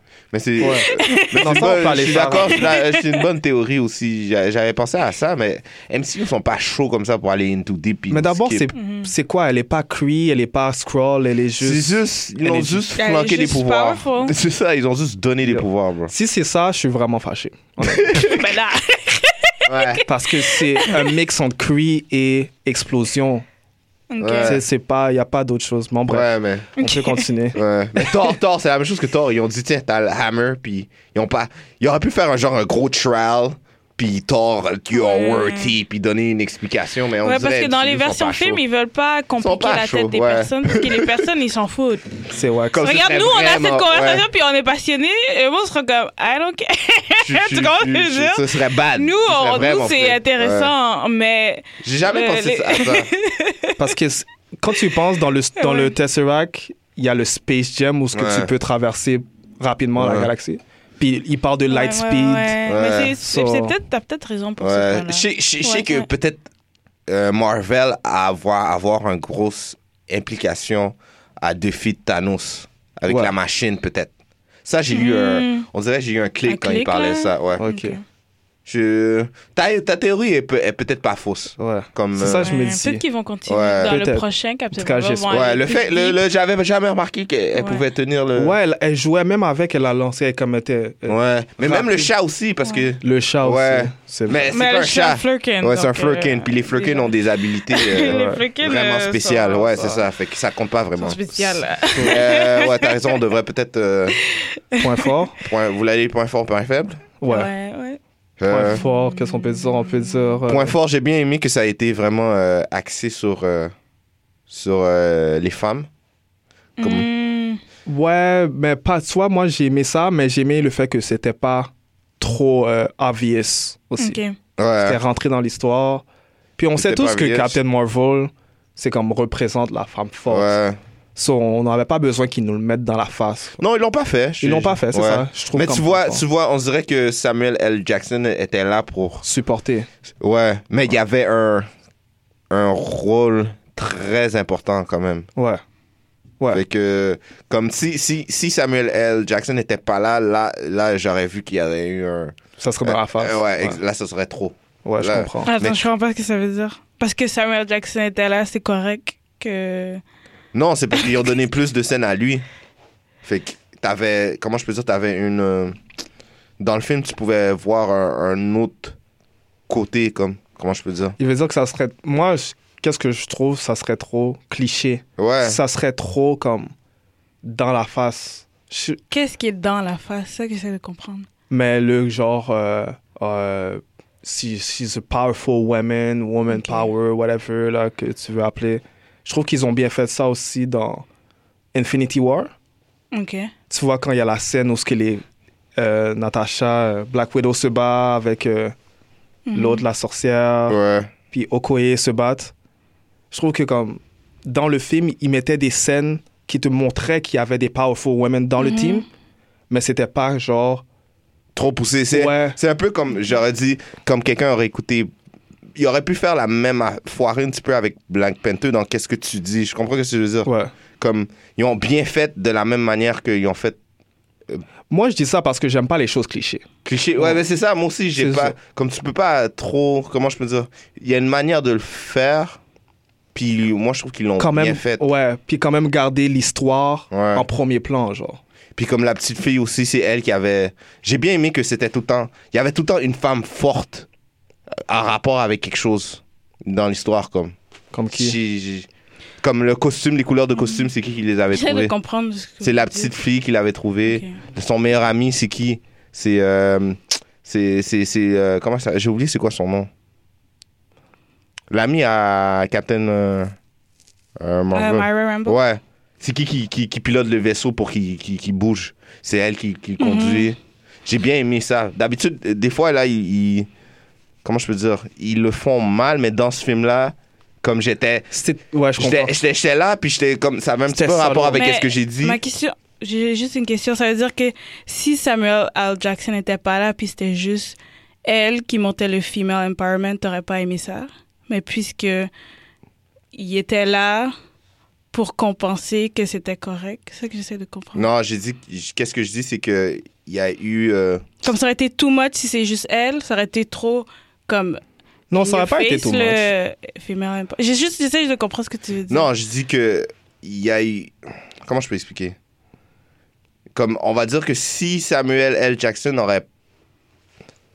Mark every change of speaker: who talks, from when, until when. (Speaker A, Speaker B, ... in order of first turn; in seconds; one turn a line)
Speaker A: 0.3-8.7
Speaker B: 0.6-2.6
Speaker C: 0.8-3.2
Speaker B: 8.1-12.9
Speaker C: 8.7-9.1
Speaker A: 11.6-16.1
Speaker C: 12.9-14.3
Speaker B: 15.5-18.3
Speaker A: 17.8-18.4
Speaker C: 18.2-21.1
Speaker A: 19.6-20.0
Speaker B: 20.1-23.4
Speaker C: 24.1-24.6
Speaker A: 24.2-24.6
Speaker B: 24.4-27.6
Speaker A: 26.1-26.7
Speaker C: 26.8-27.3
Speaker A: 27.5-38.6
Speaker C: 34.9-35.7
Speaker C: 37.2-42.1
Speaker A: 39.4-41.2
Speaker B: 42.3-42.9
Speaker A: 42.7-44.2
Speaker C: 42.8-53.8
Speaker A: 47.2-50.7
Speaker A: 51.8-53.1
Speaker B: 53.8-62.6
Speaker C: 55.6-55.9
Speaker A: 58.1-58.5
Speaker A: 60.0-60.3
Speaker C: 61.7-66.1
Speaker A: 62.6-63.1
Speaker B: 63.2-63.7
Speaker A: 64.6-66.4
Speaker A: 67.1-74.1
Speaker B: 73.1-73.3
Speaker A: 74.6-77.6
Speaker C: 74.9-75.7
Speaker C: 76.5-78.0
Speaker B: 77.6-78.0
Speaker A: 78.7-82.5
Speaker B: 81.6-83.0
Speaker C: 82.3-86.2
Speaker A: 83.5-84.0
Speaker B: 83.9-85.3
Speaker A: 85.3-88.5
Speaker C: 87.6-87.8
Speaker B: 88.3-92.1
Speaker A: 91.1-104.2
Speaker B: 93.0-94.5
Speaker C: 94.5-100.0
Speaker B: 98.0-98.4
Speaker C: 101.0-103.1
Speaker B: 101.9-102.2
Speaker C: 104.1-105.1
Speaker B: 104.8-105.3
Speaker A: 105.4-107.0
Speaker B: 107.2-107.5
Speaker C: 107.3-108.0
Speaker A: 108.4-108.8
Speaker B: 108.5-110.7
Speaker C: 108.7-110.3
Speaker A: 110.5-113.7
Speaker A: 114.5-115.9
Speaker C: 116.8-117.6
Speaker A: 116.8-117.0
Speaker B: 117.8-124.2
Speaker C: 124.0-124.3
Speaker A: 124.6-125.0
Speaker B: 124.8-126.0
Speaker B: 126.6-130.5
Speaker A: 126.8-127.6
Speaker A: 130.3-130.8
Speaker B: 131.2-133.6
Speaker A: 133.6-139.2
Speaker B: 134.4-136.2
Speaker B: 139.2-139.9
Speaker A: 140.2-141.7
Speaker A: 142.5-145.3
Speaker B: 145.3-145.6
Speaker A: 146.5-155.8
Speaker B: 152.6-153.8
Speaker B: 154.8-155.5
Speaker C: 155.4-160.0
Speaker A: 160.5-162.4
Speaker A: 163.2-165.8
Speaker A: 166.6-169.0
Speaker A: 169.7-171.2
Speaker B: 171.2-176.7
Speaker A: 175.2-175.6
Speaker B: 177.4-179.0
Speaker C: 179.1-181.3
Speaker B: 181.5-191.0
Speaker C: 186.5-186.9
Speaker B: 191.7-192.5
Speaker C: 193.1-193.5
Speaker B: 193.7-195.2
Speaker B: 195.8-198.7
Speaker C: 199.5-199.8
Speaker B: 199.5-200.8
Speaker A: 200.7-201.1
Speaker B: 201.3-202.5
Speaker B: 203.3-209.0
Speaker C: 208.6-209.0
Speaker B: 209.7-210.8
Speaker A: 211.5-215.1
Speaker B: 212.1-212.6
Speaker A: 215.8-223.8
Speaker B: 220.4-220.7
Speaker B: 224.9-226.6
Speaker A: 226.8-232.6
Speaker B: 228.2-228.6
Speaker A: 233.3-235.1
Speaker B: 234.4-238.4
Speaker A: 237.1-237.4
Speaker A: 238.8-244.1
Speaker A: 244.7-247.5
Speaker B: 247.9-248.4
Speaker A: 248.1-248.9
Speaker A: 249.4-251.9
Speaker C: 250.6-250.9
Speaker C: 251.5-253.1
Speaker A: 252.6-259.9
Speaker C: 254.1-254.4
Speaker A: 261.7-263.5
Speaker A: 264.4-273.7
Speaker C: 264.7-265.6
Speaker C: 270.0-270.5
Speaker A: 274.4-278.3
Speaker B: 278.3-279.4
Speaker A: 279.0-282.4
Speaker B: 280.9-281.6
Speaker C: 281.5-292.3
Speaker C: 293.3-294.3
Speaker C: 295.1-298.1
Speaker A: 297.9-301.2
Speaker C: 301.4-304.8
Speaker B: 305.3-306.5
Speaker C: 305.4-309.2
Speaker A: 309.1-312.4
Speaker A: 313.7-316.4